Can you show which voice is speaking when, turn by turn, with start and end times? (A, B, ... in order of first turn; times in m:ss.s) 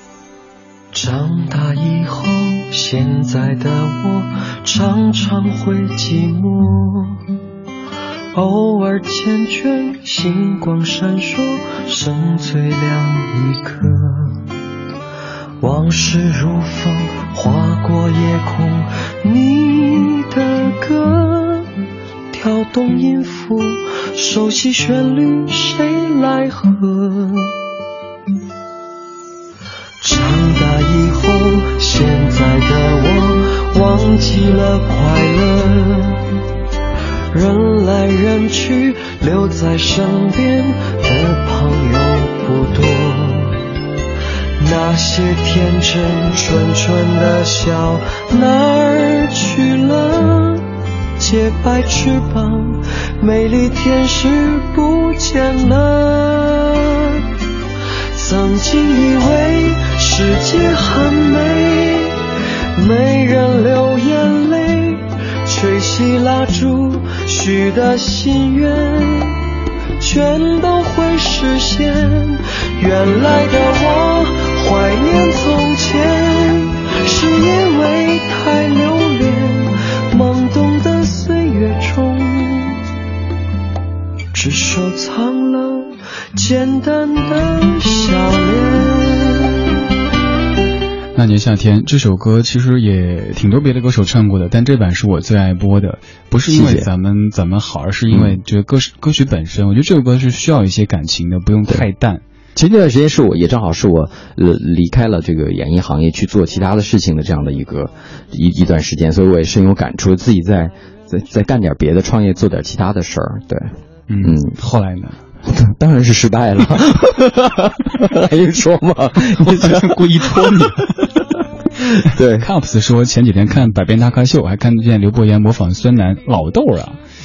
0:00.9-0:07.2 A
0:08.3-0:14.5 A
0:15.6-0:21.7 A
0:22.3-0:27.6 A
0:30.0-0:36.3 A
0:37.3-0:43.6 A
0:44.6-0:50.7 A
0:51.2-0:57.2 A
0:58.1-1:09.4 A
1:10.0-1:22.8 A
1:24.3-1:29.6 A
1:31.2-1:42.2 B
1:36.5-1:36.9 C
1:38.1-1:38.4 C
1:42.6-1:54.6 C
1:54.1-1:55.2 B
1:55.4-2:01.0 C
1:59.3-2:01.1 B
2:01.8-2:02.5 C
2:02.1-2:07.0 B